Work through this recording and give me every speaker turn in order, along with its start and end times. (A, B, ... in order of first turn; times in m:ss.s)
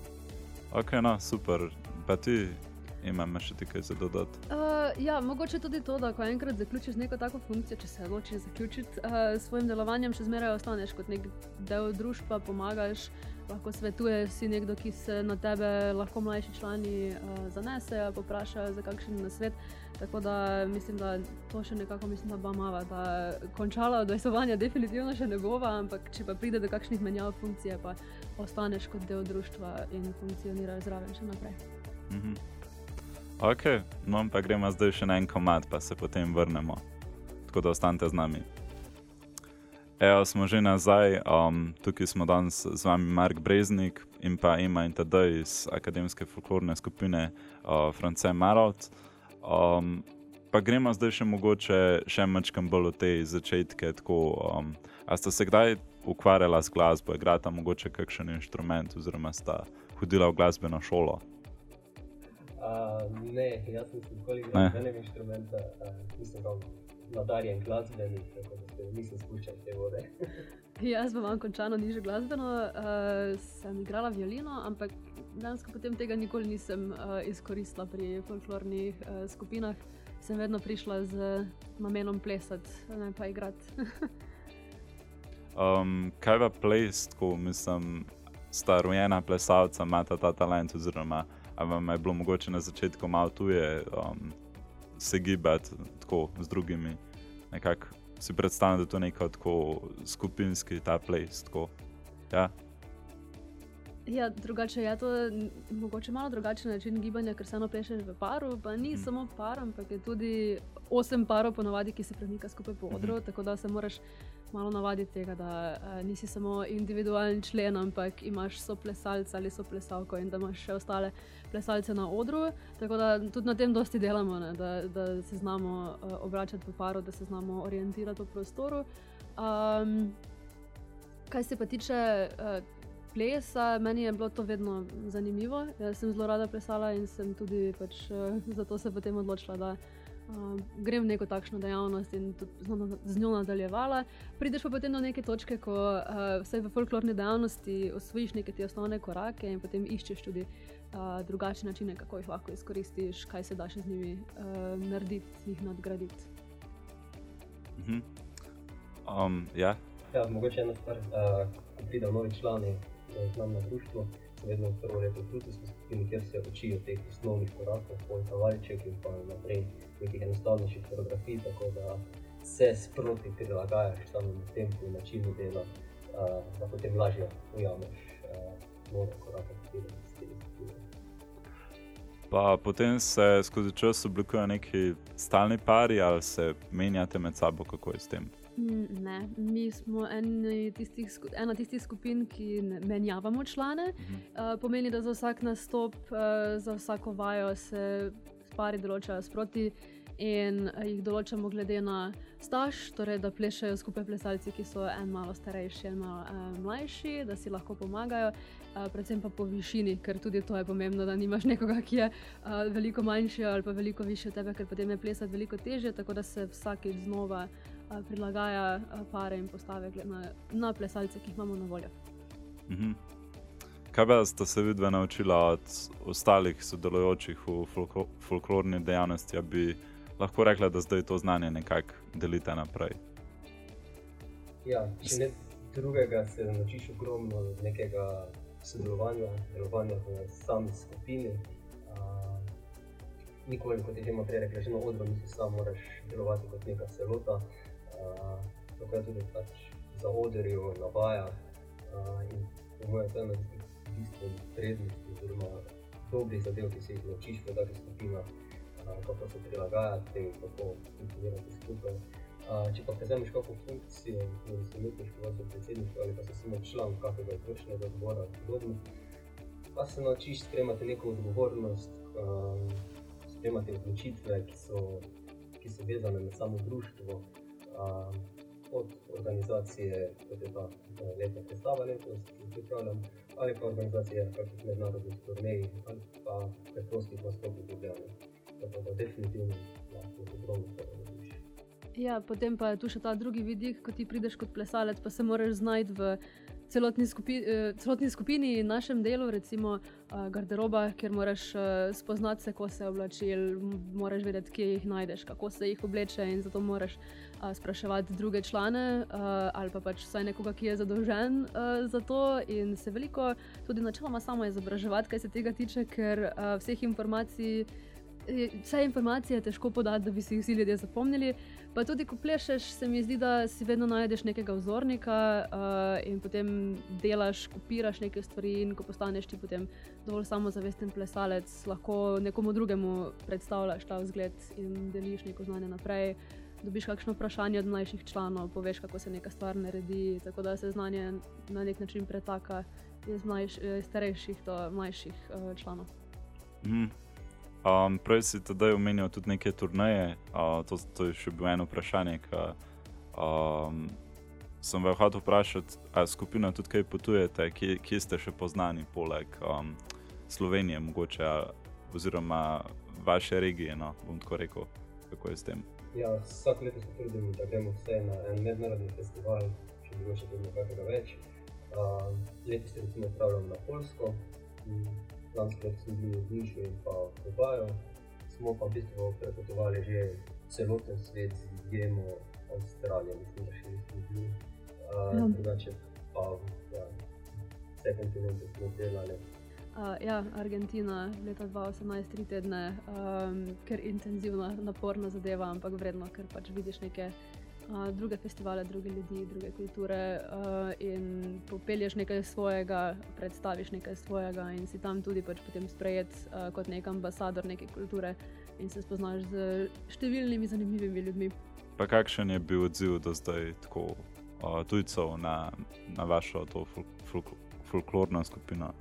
0:00.7-0:04.4 A
0:04.5-0:31.6 B
0:32.1-0:32.4 A
0:33.4-0:36.8 A
0:37.5-0:38.4 A
0:40.0-1:01.2 A
1:02.6-1:10.4 C
1:10.8-1:24.1 B
1:25.5-1:34.4 A
1:35.0-1:37.0 A
1:37.5-1:41.7 A
1:44.0-1:54.0 B
1:52.9-1:53.2 A
1:54.5-2:08.8 B
2:09.4-2:10.2 B
2:11.3-2:36.3 B
2:37.8-2:38.0 A
2:39.0-2:39.8 A
2:40.1-3:00.8 C
3:02.3-3:08.3 A
3:08.6-3:41.9 B
3:14.0-3:14.2 A
3:42.7-3:43.0 A
3:43.9-3:53.0 A
3:54.6-4:02.5 C
4:03.4-4:28.8 C
4:29.7-4:35.1 C
4:35.6-4:51.4 C
4:52.0-5:17.7 B
5:18.2-5:45.9 B
5:46.6-5:46.9 A
5:47.6-5:52.6 A
5:53.1-5:54.0 A
5:54.6-6:05.6 A
6:05.9-6:27.0 C
6:27.8-6:29.2 C
6:29.7-6:37.1 B
6:37.7-6:51.3 B
6:51.8-6:58.7 A